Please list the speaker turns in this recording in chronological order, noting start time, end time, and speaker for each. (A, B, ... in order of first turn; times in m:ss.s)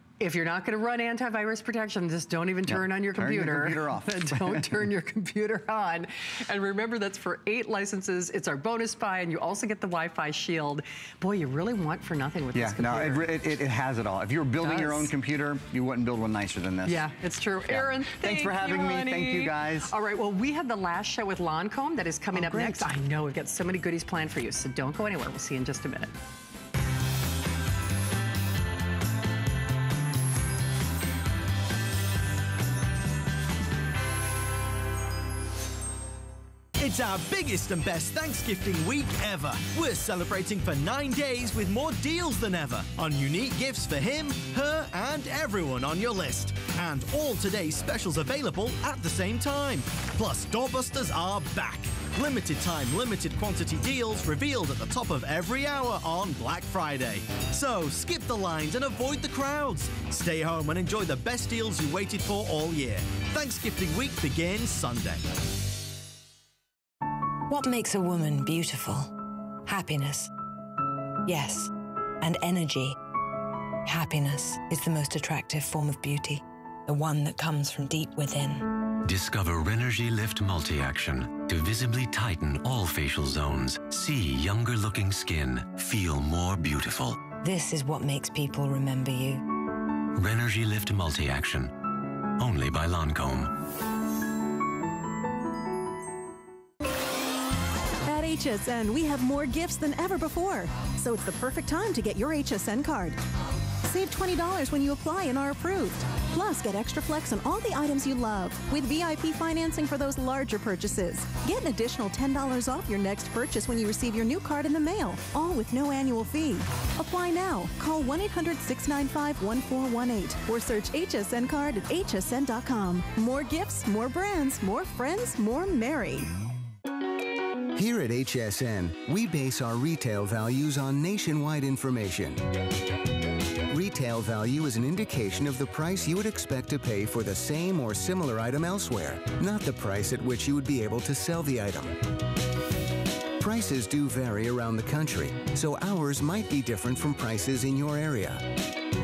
0:00.2-0:13.3 A
0:02.7-0:04.7 B
0:12.6-0:17.1 B
0:14.6-0:15.1 A
0:16.8-0:26.1 A
0:17.7-0:19.9 B
0:22.3-0:22.9 B
0:36.8-1:05.2 C
1:07.5-1:09.1 D
1:09.6-1:10.3 D
1:11.3-1:13.0 D
1:13.8-1:18.8 D
1:19.0-1:27.3 E
1:27.4-1:29.5 D
1:30.1-1:31.7 E
1:32.4-1:33.6 E
1:38.0-1:43.2 F
1:43.8-2:06.3 F
2:07.7-2:12.4 G
2:13.7-2:22.0 G
2:23.4-2:28.6 G